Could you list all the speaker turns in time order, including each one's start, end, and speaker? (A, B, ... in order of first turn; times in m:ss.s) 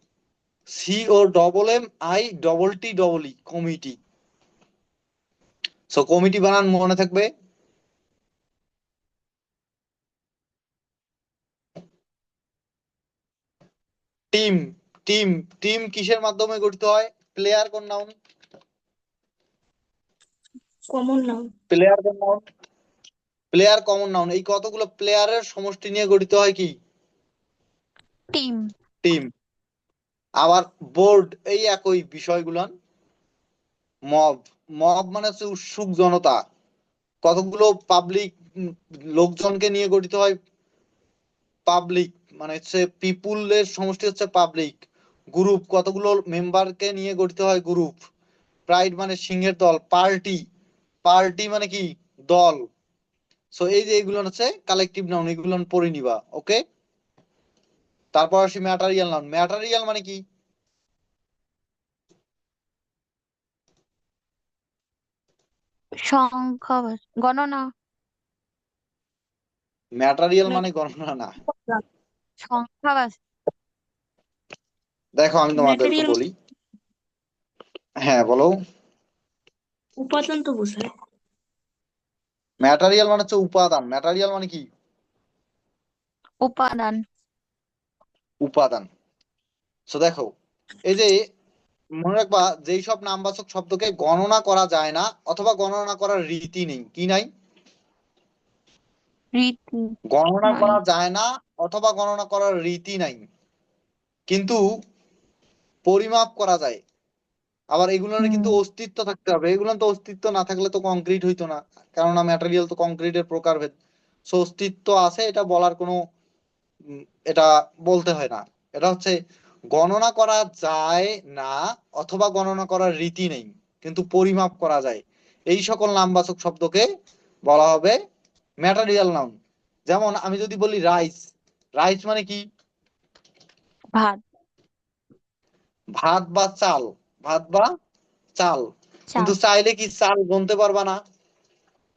0:00.7-0:04.0 A
0:05.9-0:07.3 A
0:14.3-0:18.1 A
0:20.9-0:21.5 B
0:21.7-0:22.4 A
0:23.5-0:26.7 A
0:28.3-0:28.7 C
0:29.0-0:29.3 A
0:30.4-0:32.7 A
0:34.1-0:36.4 A
0:37.2-0:40.4 A
0:41.7-0:44.8 A
0:45.3-0:48.0 A
0:48.7-0:50.4 A
0:51.0-0:52.6 A
0:53.5-0:56.6 A
0:58.1-1:00.2 A
1:06.0-1:07.7 C
1:10.0-1:11.3 A
1:12.4-1:13.2 C
1:15.2-1:16.3 A
1:15.5-1:16.2 B
1:18.0-1:18.5 A
1:20.0-1:20.9 B
1:22.6-1:24.6 A
1:26.4-1:27.0 C
1:28.4-1:28.9 A
1:29.9-1:30.3 A
1:30.8-1:31.2 A
1:32.0-1:37.3 A
1:39.3-1:40.8 C
1:40.1-1:43.2 A
1:44.3-1:44.6 A
1:45.8-1:46.8 A
1:47.7-1:53.7 A
1:48.2-1:48.6 C
1:54.3-1:56.0 A
1:57.0-1:59.2 A
1:59.7-2:06.8 A
2:07.4-2:08.0 A
2:08.6-2:09.3 A
2:09.9-2:11.3 A
2:11.8-2:12.4 A
2:13.9-2:14.2 C
2:16.0-2:17.7 A
2:18.4-2:18.6 A
2:19.2-2:21.0 A